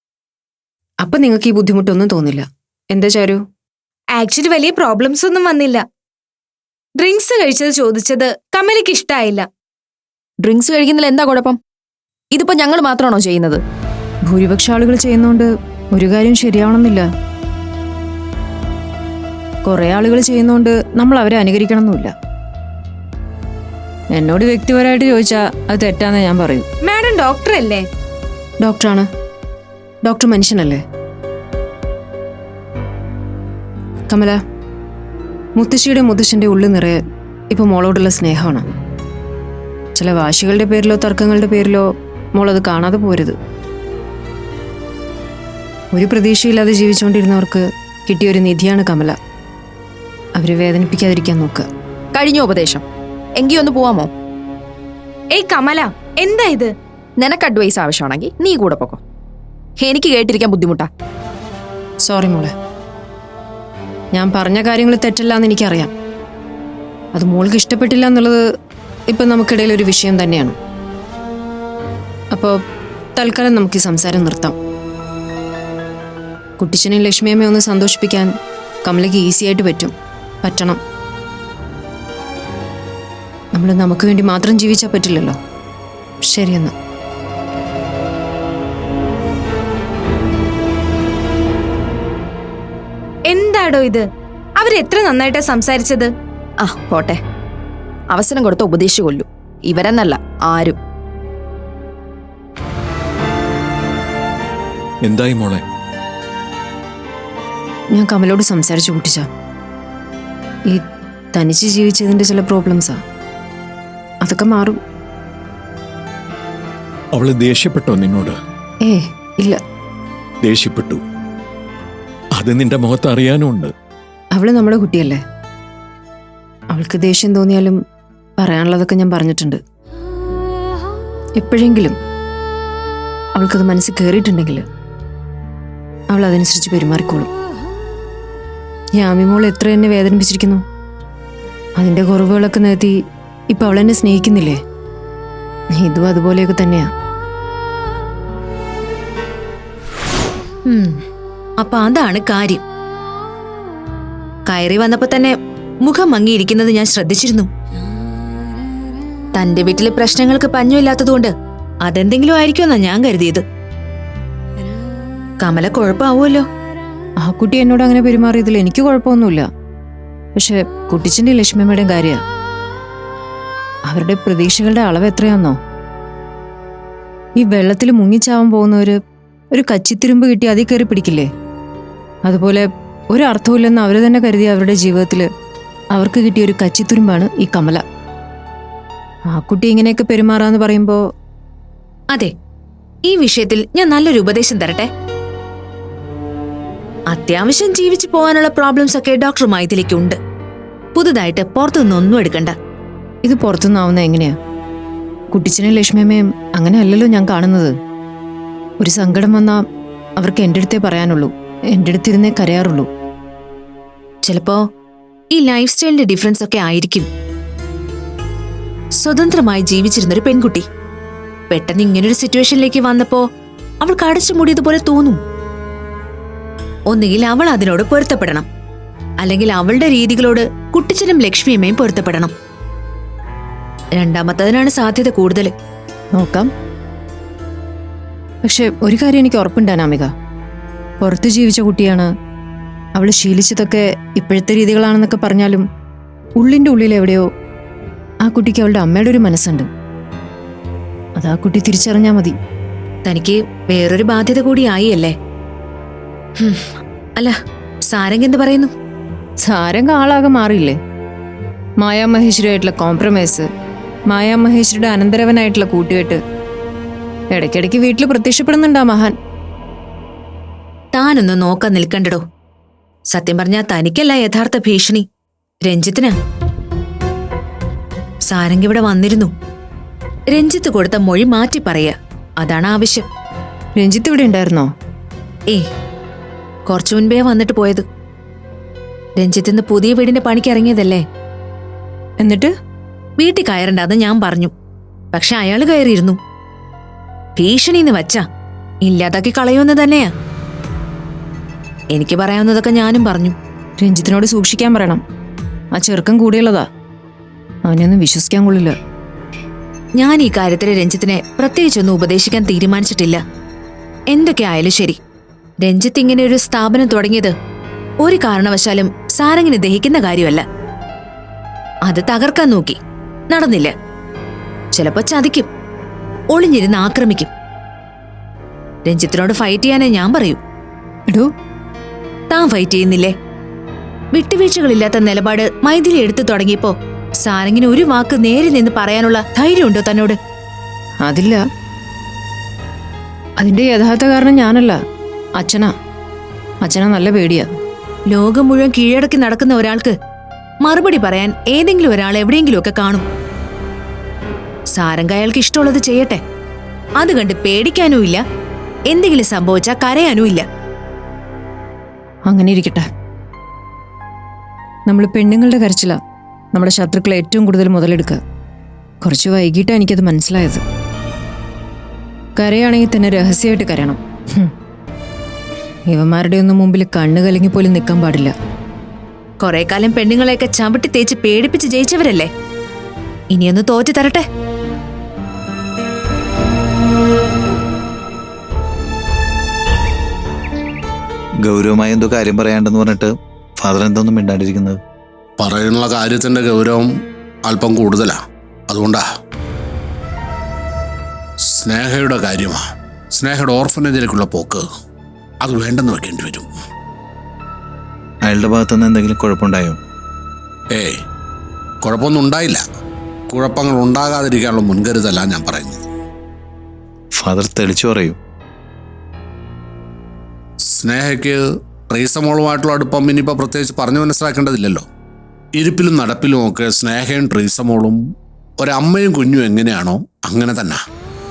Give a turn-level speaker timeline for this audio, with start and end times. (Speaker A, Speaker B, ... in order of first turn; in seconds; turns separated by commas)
Speaker A: 1.0-3.4, Speaker B: 4.1-5.8, Speaker B: 7.0-9.5, Speaker C: 10.4-11.6, Speaker C: 12.3-13.6, Speaker A: 14.3-17.1, Speaker A: 19.6-22.1, Speaker A: 24.1-26.6, Speaker B: 26.8-27.8, Speaker A: 28.6-29.1, Speaker A: 30.0-30.8, Speaker A: 34.1-34.4, Speaker A: 35.6-37.0, Speaker A: 37.5-38.7, Speaker A: 39.9-43.4, Speaker A: 45.9-49.2, Speaker A: 50.4-51.7, Speaker C: 52.1-52.8, Speaker C: 53.4-54.1, Speaker B: 55.3-56.7, Speaker C: 57.2-59.0, Speaker C: 59.8-60.9, Speaker A: 62.1-62.5, Speaker A: 64.1-65.9, Speaker A: 67.1-68.4, Speaker A: 69.1-70.5, Speaker A: 73.2-74.5, Speaker A: 76.6-78.3, Speaker A: 78.8-80.8, Speaker A: 83.5-85.4, Speaker A: 86.2-86.7, Speaker B: 93.3-94.0, Speaker B: 94.6-96.1, Speaker C: 96.6-97.2, Speaker C: 98.1-100.8, Speaker D: 105.0-105.6, Speaker A: 107.9-109.3, Speaker A: 111.3-113.0, Speaker A: 114.2-114.8, Speaker D: 117.1-118.3, Speaker A: 118.8-119.6, Speaker D: 120.4-121.0, Speaker D: 122.4-123.7, Speaker A: 124.3-125.2, Speaker A: 126.7-127.8, Speaker A: 128.4-129.6, Speaker A: 131.4-131.9, Speaker A: 133.3-134.6, Speaker A: 136.1-137.3, Speaker A: 139.0-140.6, Speaker A: 141.8-142.9, Speaker A: 143.5-144.6, Speaker A: 145.7-146.9, Speaker E: 150.6-151.0, Speaker E: 151.6-152.6, Speaker E: 154.4-157.5, Speaker E: 159.3-161.3, Speaker E: 161.8-163.4, Speaker E: 165.4-166.4, Speaker A: 167.2-169.4, Speaker A: 170.3-172.2, Speaker A: 173.9-175.6, Speaker A: 177.4-179.0, Speaker A: 179.5-181.3, Speaker A: 182.2-185.3, Speaker A: 185.9-187.8, Speaker A: 189.3-191.0, Speaker E: 193.0-194.9, Speaker E: 197.1-200.2, Speaker E: 200.9-202.6, Speaker A: 203.2-204.3, Speaker A: 205.3-207.7, Speaker A: 208.8-209.6, Speaker A: 210.2-212.9, Speaker E: 214.2-214.6, Speaker E: 215.3-217.1, Speaker E: 219.0-220.7, Speaker E: 221.5-223.2, Speaker E: 223.8-225.2, Speaker E: 226.9-228.4, Speaker E: 229.2-232.3, Speaker E: 233.9-235.5, Speaker A: 236.2-236.5, Speaker A: 238.4-240.1, Speaker A: 241.0-242.1, Speaker A: 243.0-245.6, Speaker A: 246.4-247.2, Speaker A: 248.2-249.7, Speaker A: 251.2-252.3, Speaker E: 253.0-255.2, Speaker E: 256.4-258.7, Speaker A: 259.4-260.8, Speaker A: 261.8-263.5, Speaker A: 264.1-266.2, Speaker A: 267.3-269.1, Speaker E: 270.9-272.2, Speaker E: 273.1-275.1, Speaker E: 275.6-276.1, Speaker E: 278.3-279.3, Speaker E: 280.3-283.1, Speaker A: 283.8-284.7, Speaker E: 286.6-287.8, Speaker E: 289.1-291.0, Speaker A: 292.2-292.5, Speaker E: 293.2-294.5, Speaker E: 295.1-296.2, Speaker E: 297.4-298.2, Speaker E: 298.8-300.1, Speaker E: 301.9-303.3, Speaker A: 303.8-305.0, Speaker A: 305.7-306.6, Speaker A: 307.6-308.8, Speaker E: 310.0-313.2, Speaker E: 314.1-315.0, Speaker E: 315.6-317.3, Speaker E: 318.0-320.4, Speaker E: 321.8-322.8, Speaker E: 323.3-323.7, Speaker E: 324.7-325.5, Speaker E: 326.3-327.3, Speaker E: 328.8-330.4, Speaker E: 332.3-333.1, Speaker E: 334.1-340.2, Speaker A: 341.0-341.4, Speaker A: 343.4-344.8, Speaker A: 345.4-345.7, Speaker A: 346.6-347.5, Speaker E: 348.1-349.9, Speaker E: 350.6-353.1, Speaker E: 354.7-356.2, Speaker E: 357.0-358.2, Speaker E: 358.9-360.5, Speaker A: 362.3-362.9, Speaker A: 364.9-366.0, Speaker A: 366.5-368.2, Speaker A: 369.0-370.6, Speaker A: 372.4-374.5, Speaker A: 375.9-378.3, Speaker E: 379.4-382.3, Speaker E: 383.3-384.3, Speaker F: 391.4-394.8, Speaker G: 395.4-396.9, Speaker G: 397.4-398.2, Speaker G: 398.7-399.0, Speaker G: 401.5-402.6, Speaker G: 403.1-404.6, Speaker G: 405.4-406.5, Speaker F: 408.2-409.8, Speaker G: 411.8-412.6, Speaker G: 413.3-415.8, Speaker F: 417.1-418.2, Speaker G: 420.7-424.8, Speaker G: 425.6-428.0, Speaker G: 428.6-430.8